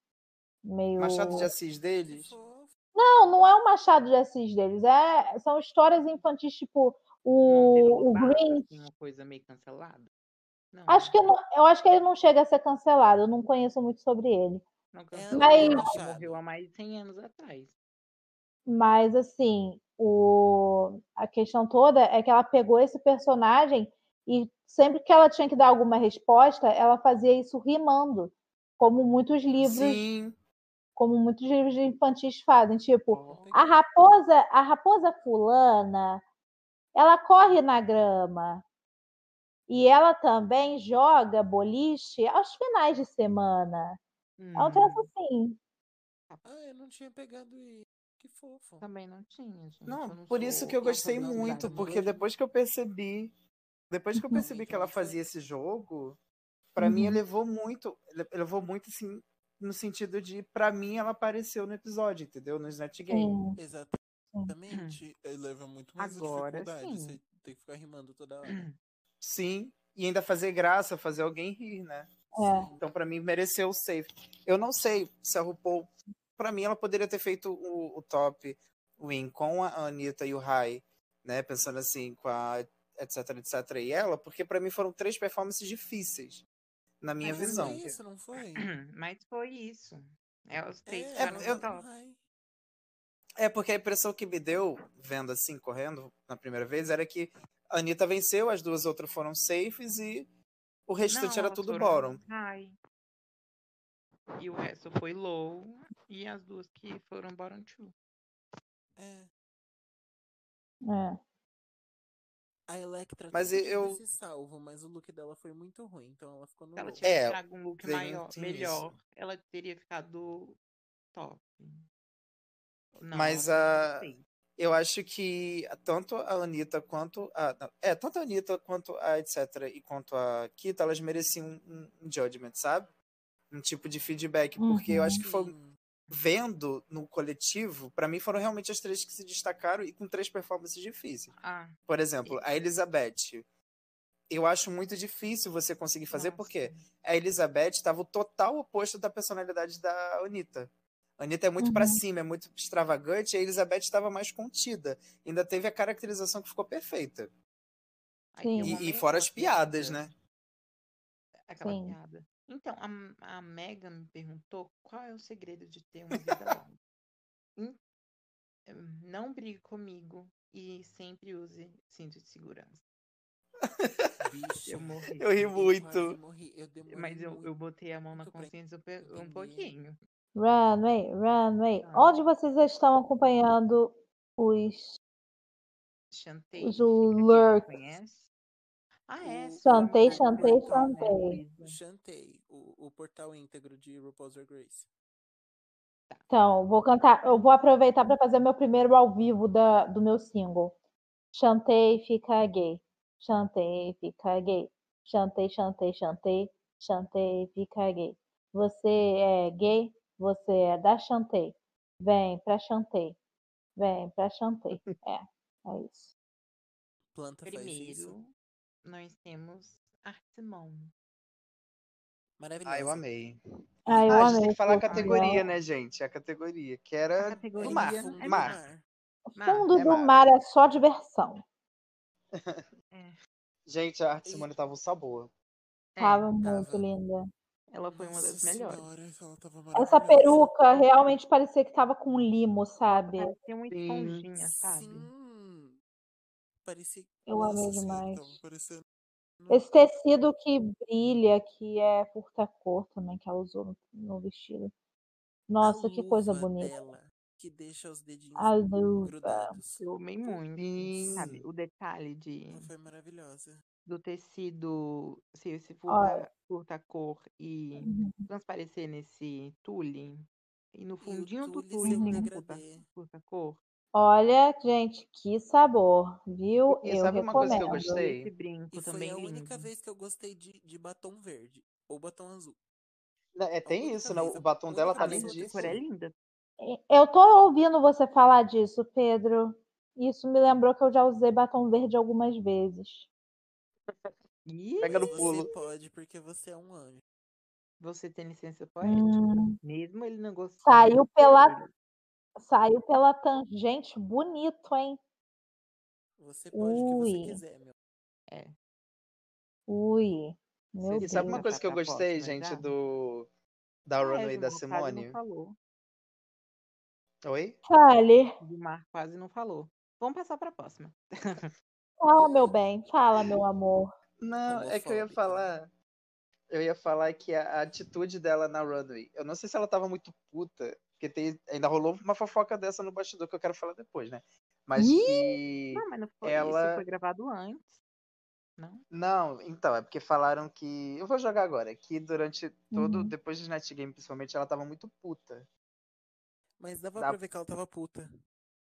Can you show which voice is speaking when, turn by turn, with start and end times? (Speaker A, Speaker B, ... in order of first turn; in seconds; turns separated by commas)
Speaker A: 0.7-1.5, Speaker B: 1.0-2.3, Speaker C: 2.1-2.7, Speaker A: 2.9-8.7, Speaker D: 7.5-10.1, Speaker D: 10.7-11.1, Speaker A: 10.9-14.6, Speaker D: 14.9-17.7, Speaker C: 15.1-16.4, Speaker A: 15.3-15.9, Speaker A: 18.7-30.0, Speaker B: 29.6-30.4, Speaker A: 31.0-36.2, Speaker D: 33.1-33.5, Speaker C: 33.1-33.7, Speaker A: 36.9-38.6, Speaker A: 39.7-44.0, Speaker D: 44.4-45.1, Speaker A: 44.6-45.6, Speaker C: 46.4-48.8, Speaker D: 48.8-52.2, Speaker B: 49.9-53.3, Speaker C: 50.9-52.3, Speaker B: 53.9-56.2, Speaker A: 54.1-54.4, Speaker C: 54.3-55.2, Speaker B: 56.7-63.4, Speaker A: 56.8-57.2, Speaker A: 63.1-63.6, Speaker C: 63.6-68.7, Speaker D: 64.7-65.0, Speaker D: 66.0-67.2, Speaker D: 68.5-68.7, Speaker B: 69.2-72.1, Speaker C: 72.3-72.9, Speaker A: 72.3-72.7, Speaker B: 72.8-86.4, Speaker B: 87.0-87.9, Speaker D: 87.2-88.0, Speaker C: 87.2-88.7, Speaker D: 88.5-91.8, Speaker C: 90.8-92.2, Speaker B: 91.2-91.6, Speaker B: 93.4-100.3, Speaker B: 100.9-102.2, Speaker D: 101.1-102.8, Speaker D: 104.4-107.9, Speaker C: 109.0-109.3, Speaker A: 110.9-111.2, Speaker C: 112.7-117.1, Speaker B: 113.3-114.0, Speaker D: 116.8-120.6, Speaker B: 117.0-118.8, Speaker D: 121.1-121.8, Speaker D: 123.0-124.2, Speaker B: 123.1-132.9, Speaker B: 133.5-135.5, Speaker A: 134.6-135.2, Speaker C: 135.2-135.8, Speaker B: 136.1-141.3, Speaker D: 141.4-142.4, Speaker B: 141.9-143.4, Speaker B: 144.3-157.3, Speaker D: 146.1-146.8, Speaker A: 151.6-152.0, Speaker D: 158.3-160.1, Speaker A: 158.4-158.8, Speaker B: 158.6-160.1, Speaker D: 161.5-166.8, Speaker A: 161.6-161.9, Speaker D: 168.7-172.8, Speaker B: 173.6-174.1, Speaker C: 174.2-177.5, Speaker D: 174.7-175.4, Speaker B: 175.2-176.2, Speaker D: 176.9-180.0, Speaker C: 178.1-179.7, Speaker A: 180.3-185.0, Speaker D: 181.8-182.2, Speaker D: 186.1-188.3, Speaker A: 186.6-187.7, Speaker D: 189.1-191.8, Speaker C: 189.2-191.1, Speaker A: 189.6-191.4, Speaker C: 191.6-194.9, Speaker A: 196.3-200.7, Speaker A: 201.3-213.2, Speaker A: 213.8-216.1, Speaker C: 217.1-218.1, Speaker D: 217.4-218.3, Speaker D: 218.8-220.9, Speaker C: 222.4-223.1, Speaker B: 222.7-223.4, Speaker A: 223.9-225.4, Speaker B: 224.0-228.6, Speaker D: 224.9-225.6, Speaker D: 227.2-228.6, Speaker C: 227.6-228.8, Speaker A: 229.3-231.4, Speaker D: 229.4-229.7, Speaker B: 229.7-230.2, Speaker B: 232.3-232.6, Speaker D: 232.9-233.2, Speaker B: 233.7-235.3, Speaker C: 234.2-234.5, Speaker D: 235.9-236.3, Speaker A: 236.0-237.2, Speaker C: 236.4-236.8, Speaker D: 237.7-238.8, Speaker C: 237.9-240.5, Speaker A: 239.8-243.3, Speaker D: 242.9-245.1, Speaker B: 243.7-244.2, Speaker C: 244.4-245.8, Speaker C: 246.6-248.8, Speaker A: 247.3-248.4, Speaker A: 249.5-254.7, Speaker A: 255.5-256.7, Speaker C: 255.6-261.2, Speaker A: 258.4-259.6, Speaker D: 259.8-262.7, Speaker B: 260.6-261.4, Speaker C: 262.5-263.6, Speaker D: 263.9-273.6, Speaker A: 265.9-266.2, Speaker A: 267.8-268.2, Speaker C: 271.0-272.8, Speaker A: 271.8-272.3, Speaker A: 273.9-278.0, Speaker B: 276.7-278.3, Speaker D: 277.3-279.7, Speaker C: 278.7-282.6, Speaker B: 283.3-285.6, Speaker C: 283.6-285.8, Speaker D: 284.9-286.1, Speaker A: 286.6-293.1, Speaker D: 294.4-295.4, Speaker B: 294.8-295.5, Speaker C: 294.8-297.0, Speaker D: 297.8-301.7, Speaker A: 298.8-299.6, Speaker A: 300.6-301.5, Speaker A: 302.4-305.0, Speaker C: 306.2-307.7, Speaker A: 306.5-307.4, Speaker A: 309.7-311.4, Speaker D: 310.8-312.7, Speaker B: 311.0-313.3, Speaker B: 313.9-315.2, Speaker D: 314.0-315.6, Speaker B: 317.2-317.6, Speaker A: 317.7-318.3, Speaker D: 318.4-321.5, Speaker A: 322.0-323.9, Speaker B: 324.2-325.7, Speaker C: 324.5-325.5, Speaker B: 326.5-336.8, Speaker A: 334.8-335.3, Speaker D: 335.7-337.8, Speaker D: 338.6-338.8, Speaker B: 338.9-345.5, Speaker A: 342.7-343.1, Speaker C: 346.6-348.1